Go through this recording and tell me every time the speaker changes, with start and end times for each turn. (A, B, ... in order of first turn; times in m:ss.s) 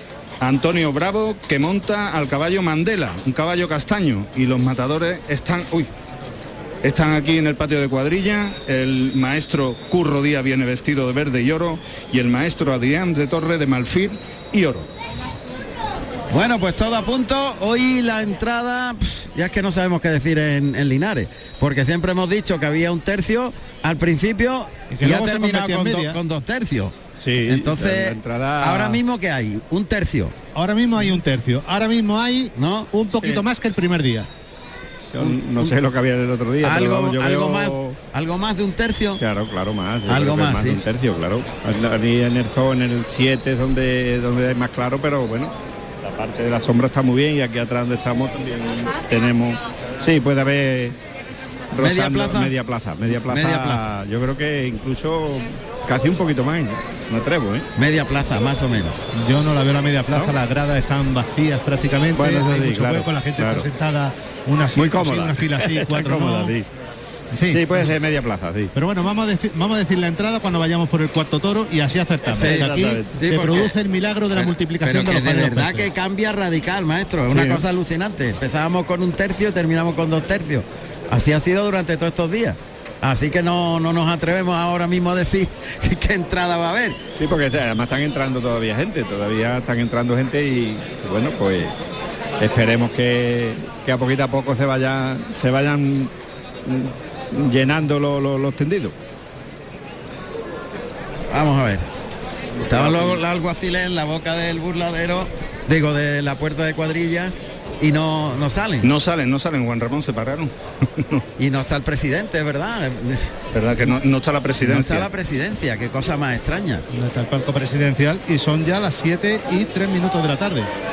0:00.4-0:05.9 A
0:06.8-0:14.9 A
0:16.3-0:26.9 B
0:24.9-0:26.2 C
0:27.2-0:29.0 D
0:27.5-0:30.3 B
0:30.5-0:34.3 C
0:32.6-0:32.9 B
0:35.1-0:38.0 D
0:35.2-0:35.7 B
0:36.6-0:39.2 B
0:39.2-0:51.0 D
0:40.1-0:40.8 B
0:51.7-0:57.7 D
0:51.8-0:52.5 B
0:53.1-0:53.8 B
0:57.8-0:59.0 B
0:59.1-1:06.6 C
1:02.1-1:03.7 D
1:04.8-1:06.7 D
1:07.3-1:07.9 C
1:07.5-1:08.7 D
1:08.7-1:15.9 C
1:12.3-1:13.7 B
1:12.3-1:13.1 D
1:14.3-1:27.0 B
1:17.3-1:17.6 D
1:27.1-1:31.7 D
1:32.4-1:36.1 D
1:36.6-1:39.0 D
1:41.3-1:41.9 B
1:42.6-1:43.2 D
1:42.6-1:48.9 B
1:48.8-1:51.2 A
1:51.4-1:53.3 B
1:53.5-1:55.1 A
1:54.6-1:56.8 B
1:56.9-2:00.7 C